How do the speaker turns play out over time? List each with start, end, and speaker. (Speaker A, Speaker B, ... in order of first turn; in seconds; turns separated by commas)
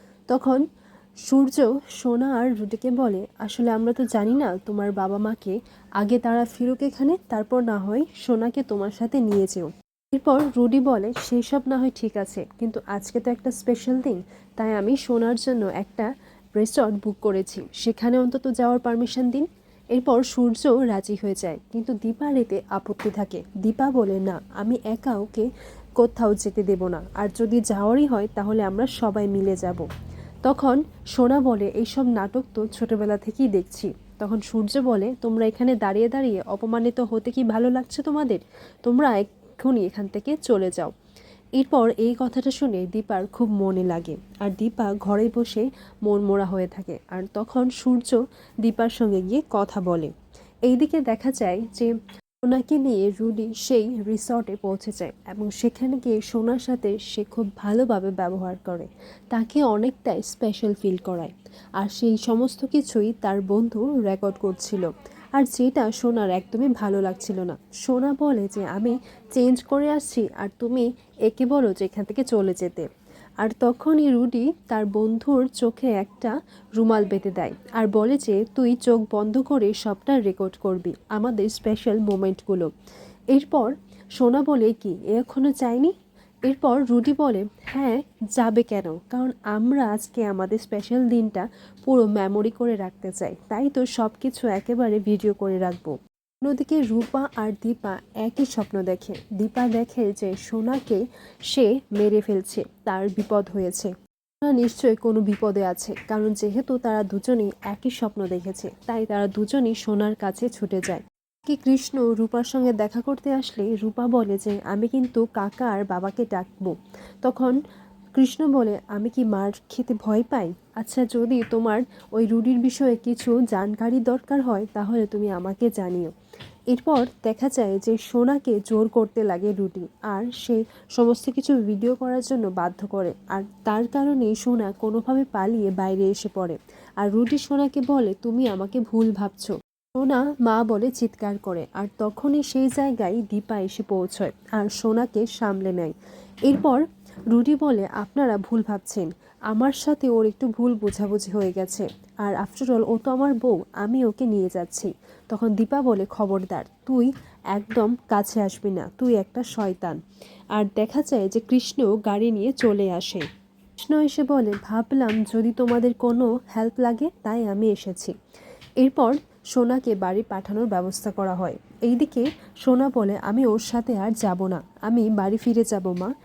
Speaker A: 0.3-0.6, Speaker A: 1.3-25.5, Speaker A: 26.0-29.9, Speaker A: 30.5-40.9, Speaker A: 41.6-50.1, Speaker A: 50.7-72.9, Speaker A: 73.4-82.7, Speaker A: 83.3-85.9, Speaker A: 86.5-103.9, Speaker A: 104.4-117.6, Speaker A: 118.2-126.1, Speaker A: 126.7-145.9, Speaker A: 146.5-160.0, Speaker A: 160.6-163.2, Speaker A: 163.8-168.1, Speaker A: 168.8-176.1